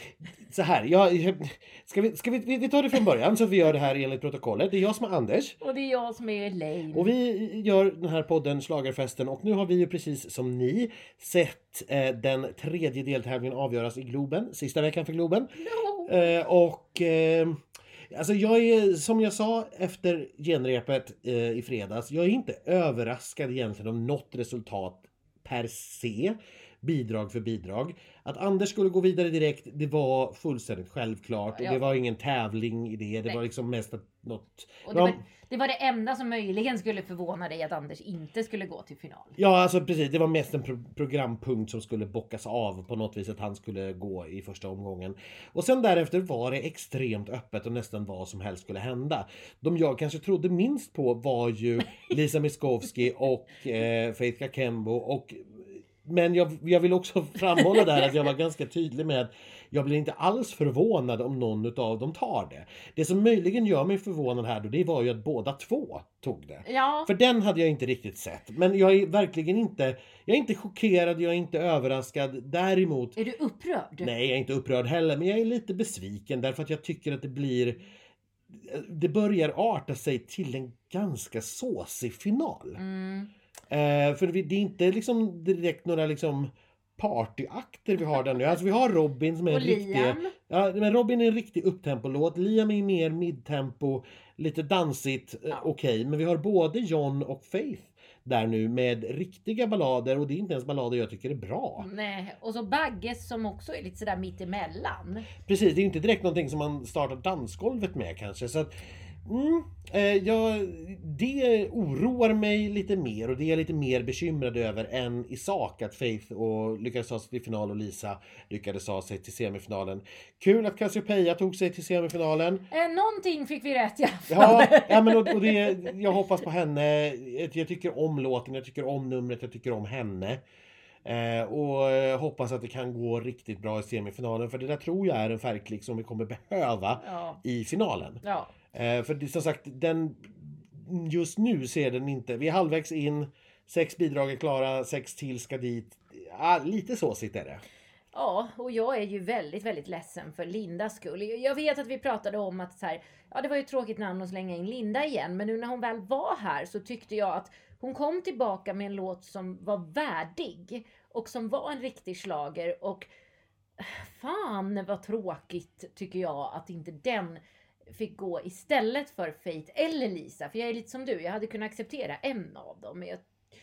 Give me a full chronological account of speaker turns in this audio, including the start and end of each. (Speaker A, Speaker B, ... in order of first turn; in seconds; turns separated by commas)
Speaker A: 0.3-5.6, Speaker B: 5.6-7.1, Speaker A: 6.9-15.5, Speaker B: 15.6-16.3, Speaker A: 16.1-17.6, Speaker A: 18.1-35.2, Speaker B: 31.5-31.8, Speaker B: 34.9-39.4, Speaker A: 39.4-73.2, Speaker B: 66.6-67.1, Speaker B: 73.2-74.1, Speaker A: 74.0-77.8, Speaker A: 78.5-82.8, Speaker B: 82.8-83.3, Speaker A: 83.7-101.9, Speaker B: 89.5-90.3, Speaker B: 101.8-105.3, Speaker A: 105.5-108.7, Speaker A: 109.3-122.7, Speaker B: 122.7-125.9, Speaker A: 124.3-130.4, Speaker A: 131.1-138.2, Speaker B: 137.0-137.4, Speaker B: 138.2-138.5, Speaker A: 138.7-147.7, Speaker B: 148.1-163.1, Speaker B: 163.8-167.4, Speaker B: 167.9-173.2